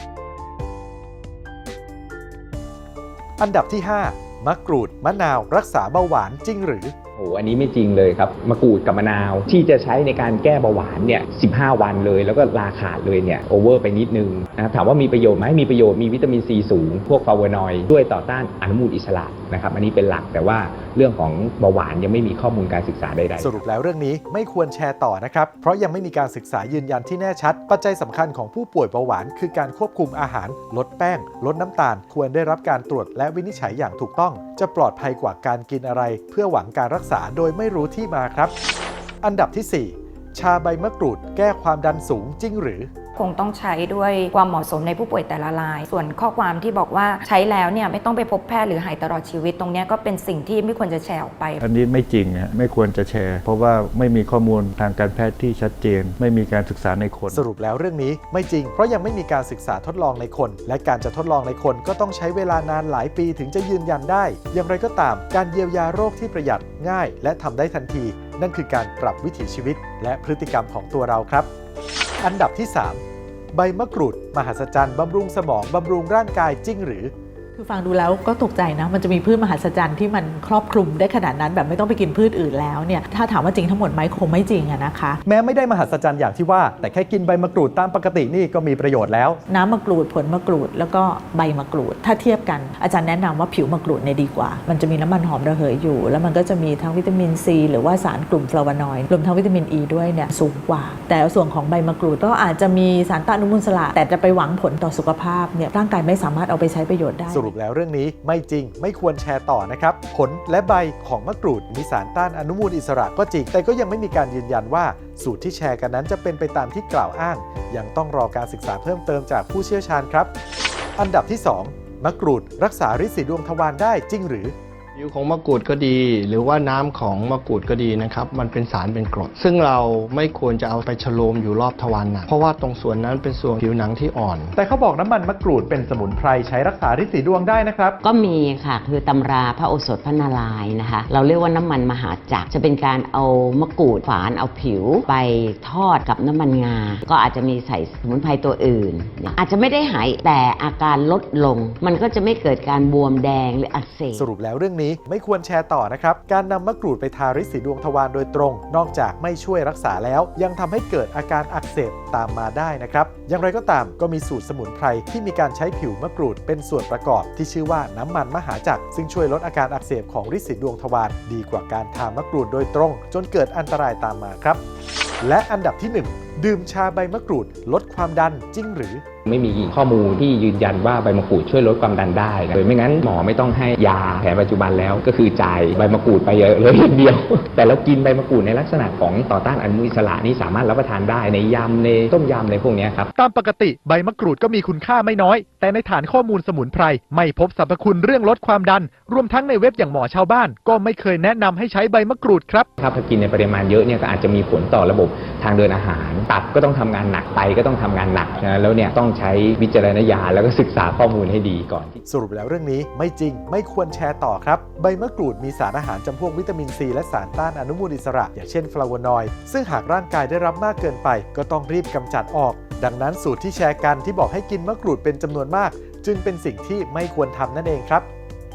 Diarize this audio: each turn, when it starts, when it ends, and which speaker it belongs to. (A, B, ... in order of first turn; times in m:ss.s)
0:03.4-0:06.9 A
0:07.2-0:23.6 B
0:23.4-0:38.5 A
0:39.2-0:42.9 A
0:43.2-0:51.6 C
0:51.6-0:57.4 D
0:57.3-1:11.5 A
1:12.2-1:13.0 A
1:13.5-1:17.1 A
1:17.6-1:25.2 E
1:25.2-1:29.4 A
1:29.5-1:47.5 E
1:47.3-2:00.3 A
2:01.0-2:04.5 A
2:05.0-2:14.5 F
2:14.6-2:17.9 A
2:18.0-2:34.3 G
2:34.1-2:54.6 A
2:55.2-2:59.0 A
2:59.2-3:13.1 B
3:13.2-3:22.6 A
3:22.8-3:32.0 B
3:32.1-3:48.1 A